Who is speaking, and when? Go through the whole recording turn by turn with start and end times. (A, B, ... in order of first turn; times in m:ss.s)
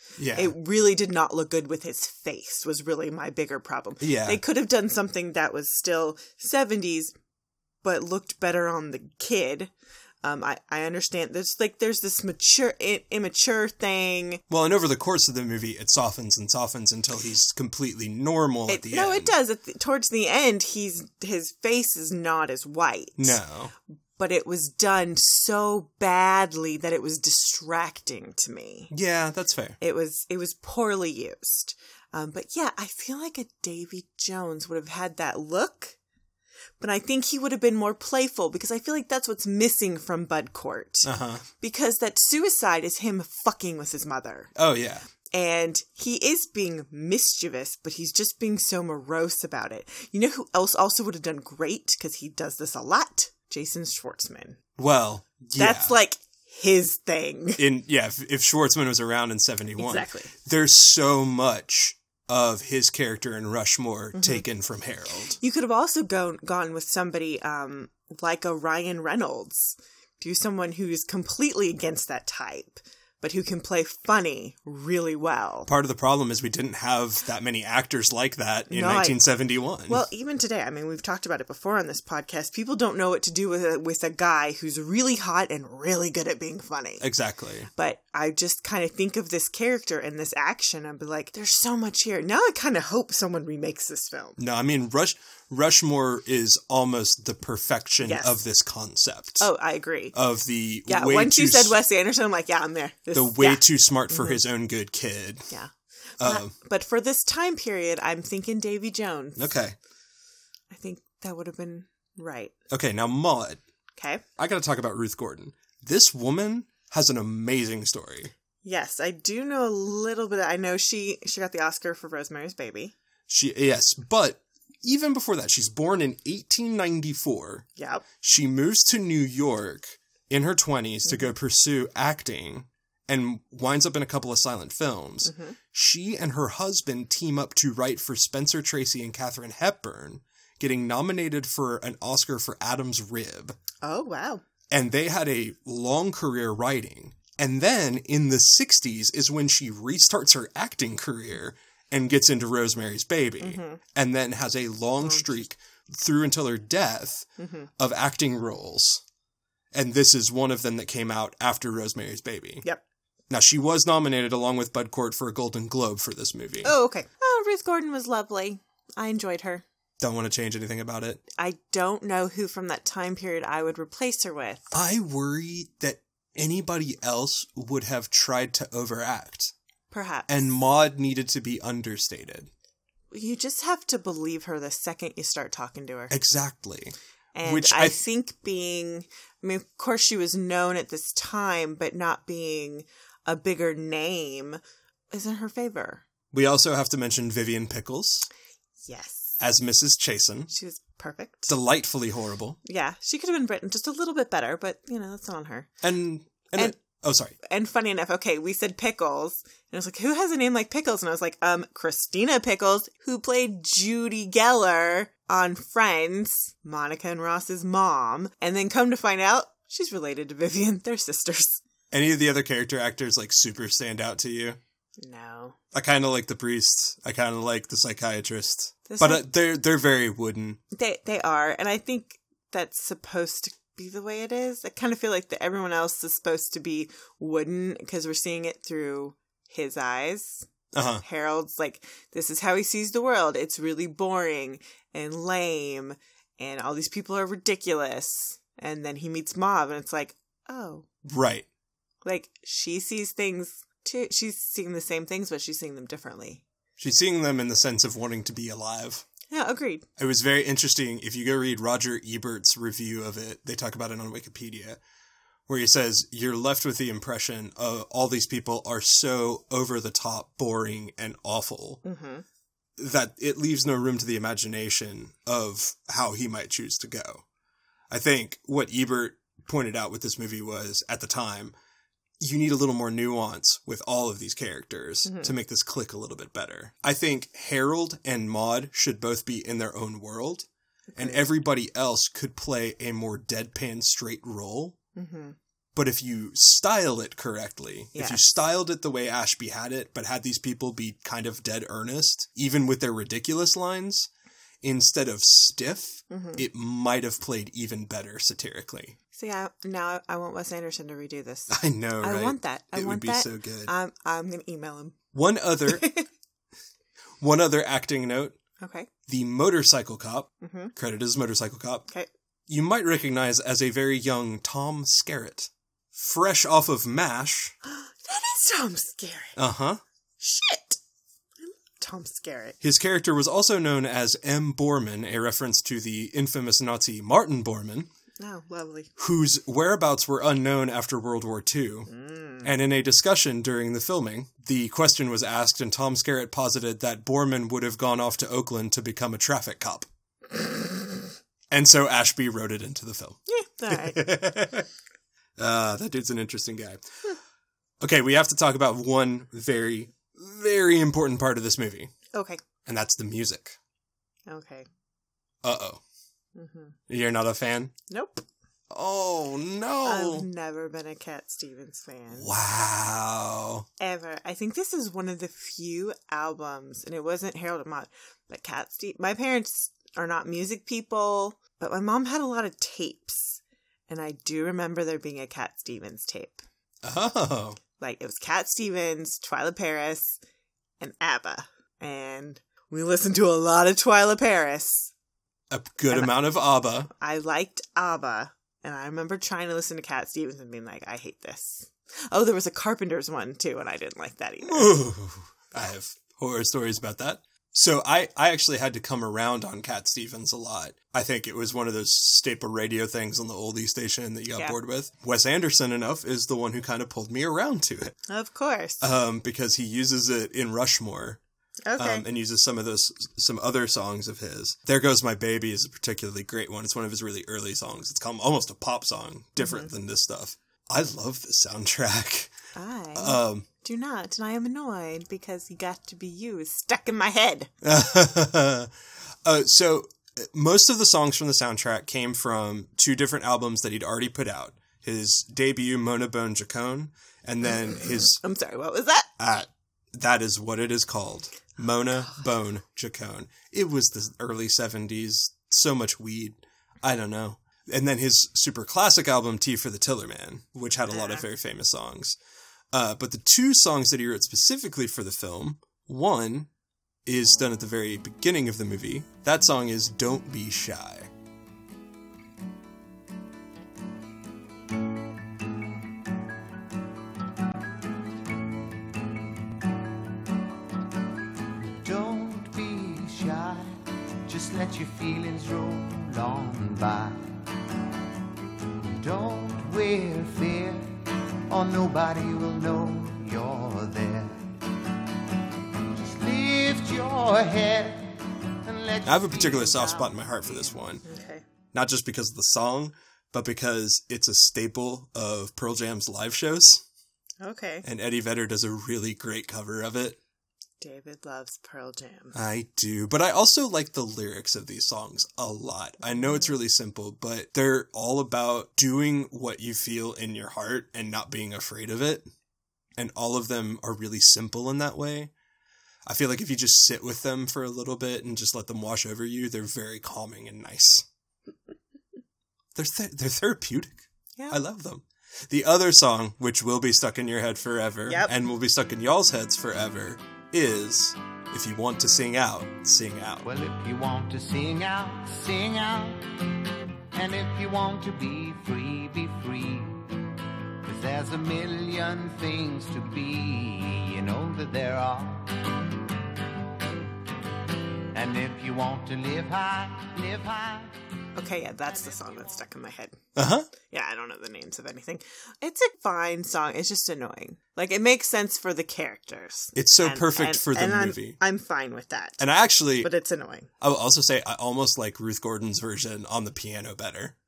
0:00.2-0:00.5 A
0:00.3-0:07.1 B
0:04.0-0:04.4 A
0:07.8-0:09.7 B
0:10.2-0:14.4 B
0:14.5-0:19.3 A
0:18.7-0:23.4 B
0:23.2-0:23.7 A
0:24.2-0:28.9 B
0:28.9-0:29.8 A
0:29.8-0:36.0 B
0:36.8-0:44.5 B
0:41.0-0:41.4 A
0:44.6-0:45.0 A
0:45.3-0:54.6 B
0:54.8-0:56.0 A
0:55.6-0:57.6 B
0:57.6-1:05.4 A
0:59.8-1:00.3 B
1:04.1-1:04.4 B
1:05.4-1:15.7 B
1:15.7-1:20.1 A
1:18.7-1:19.2 B
1:19.9-1:27.0 B
1:27.0-1:27.7 A
1:27.7-1:34.4 B
1:34.4-1:39.5 A
1:38.0-1:38.4 B
1:39.4-1:40.2 B
1:40.1-1:41.8 A
1:40.9-1:44.4 B
1:43.1-1:45.5 A
1:45.5-1:49.5 B
1:46.2-1:46.5 A
1:49.4-1:49.8 A
1:50.7-1:52.5 B
1:52.7-1:53.6 A
1:54.0-1:54.2 B
1:54.4-1:58.3 A
1:58.6-2:02.9 B
2:03.3-2:07.7 A
2:07.8-2:08.1 B
2:08.2-2:23.6 A
2:15.2-2:15.6 B
2:23.8-2:24.4 B
2:24.7-2:39.0 A
2:33.4-2:33.8 B
2:35.0-2:35.4 B
2:37.4-2:37.7 B
2:39.7-2:42.6 A
2:43.3-2:46.7 A
2:46.6-2:49.6 B
2:50.0-2:51.2 A
2:51.4-2:54.7 B
2:54.7-2:59.5 A
2:59.9-3:00.5 B
3:00.3-3:02.5 A
3:03.1-3:06.1 B
3:06.1-3:08.0 A
3:07.4-3:14.6 B
3:15.1-3:16.0 B
3:16.3-3:18.3 A
3:18.8-3:19.4 B
3:19.4-3:20.5 A
3:20.5-3:21.5 B
3:21.5-3:22.6 A
3:22.6-3:25.7 B
3:25.8-3:27.4 A
3:27.4-3:41.6 B
3:41.9-3:44.6 A
3:45.0-3:45.6 B
3:45.7-3:50.6 A
3:48.9-3:49.3 B
3:50.7-4:00.5 B
4:00.7-4:01.0 A
4:01.0-4:10.9 B
4:11.0-4:11.5 A
4:12.0-4:16.4 B
4:16.8-4:19.1 A
4:19.3-4:19.9 B
4:20.0-4:24.8 A
4:25.5-4:31.8 A
4:31.8-4:32.2 B
4:32.8-4:37.2 A
4:37.9-4:41.5 A
4:42.2-4:54.8 A
4:45.0-4:45.3 B
4:50.9-4:51.3 B
4:55.0-4:55.4 B
4:55.8-5:04.1 A
4:57.9-4:58.3 B
5:04.6-5:09.0 A
5:06.1-5:06.4 B
5:09.1-5:15.0 B
5:11.5-5:13.7 A
5:15.1-5:15.9 A
5:15.7-5:16.1 B
5:17.2-5:18.4 A
5:18.6-5:18.9 B
5:19.1-5:21.9 A
5:20.4-5:20.7 B
5:22.5-5:27.6 A
5:27.6-5:29.4 B
5:29.4-5:29.8 A
5:30.2-5:30.8 B
5:31.4-5:32.6 B
5:32.6-5:37.9 A
5:38.2-5:38.9 B
5:39.0-5:41.9 A
5:41.9-5:42.5 B
5:42.4-5:49.9 A
5:51.5-5:54.7 A
5:53.3-5:54.1 B
5:55.4-5:56.8 A
5:57.8-6:01.9 A
6:02.1-6:02.4 B
6:02.6-6:03.6 A
6:04.3-6:04.7 B
6:05.4-6:05.8 A
6:06.4-6:06.8 B
6:06.9-6:07.7 A
6:07.9-6:08.3 B
6:08.7-6:10.3 A
6:09.8-6:12.3 B
6:12.1-6:13.7 A
6:13.8-6:26.4 B
6:26.8-6:27.6 A
6:27.8-6:30.2 B
6:30.8-6:34.9 B
6:35.5-6:36.9 A
6:36.9-6:44.8 B
6:44.4-6:58.0 A
6:58.1-6:58.9 B
6:58.8-7:01.2 A
7:01.7-7:02.0 B
7:01.8-7:12.3 A
7:09.4-7:09.7 B
7:12.6-7:17.5 B
7:13.0-7:13.5 A
7:17.6-7:18.7 A
7:19.2-7:28.2 A
7:28.2-7:29.1 B
7:29.2-7:42.2 A
7:40.9-7:41.3 B
7:42.7-7:46.5 A
7:47.1-7:51.1 A
8:01.8-8:07.4 C
8:09.0-8:14.5 C
8:15.9-8:20.8 C
8:19.1-8:21.0 A
8:21.0-8:21.4 B
8:21.7-8:26.8 A
8:27.4-8:27.8 B
8:27.8-8:30.2 A
8:30.8-8:32.4 B
8:32.3-8:42.3 A
8:43.0-8:45.3 A
8:46.1-8:51.1 A
8:52.8-9:03.5 A
8:58.1-8:58.3 B
9:03.4-9:06.4 C
9:07.1-9:10.1 C
9:10.8-9:15.7 C
9:18.1-9:20.9 C
9:21.4-9:23.2 B
9:21.8-9:22.6 C
9:23.4-9:23.7 A
9:23.9-9:32.4 B
9:29.8-9:31.4 A
9:32.4-9:33.1 A
9:33.0-9:33.7 B
9:33.8-9:37.4 A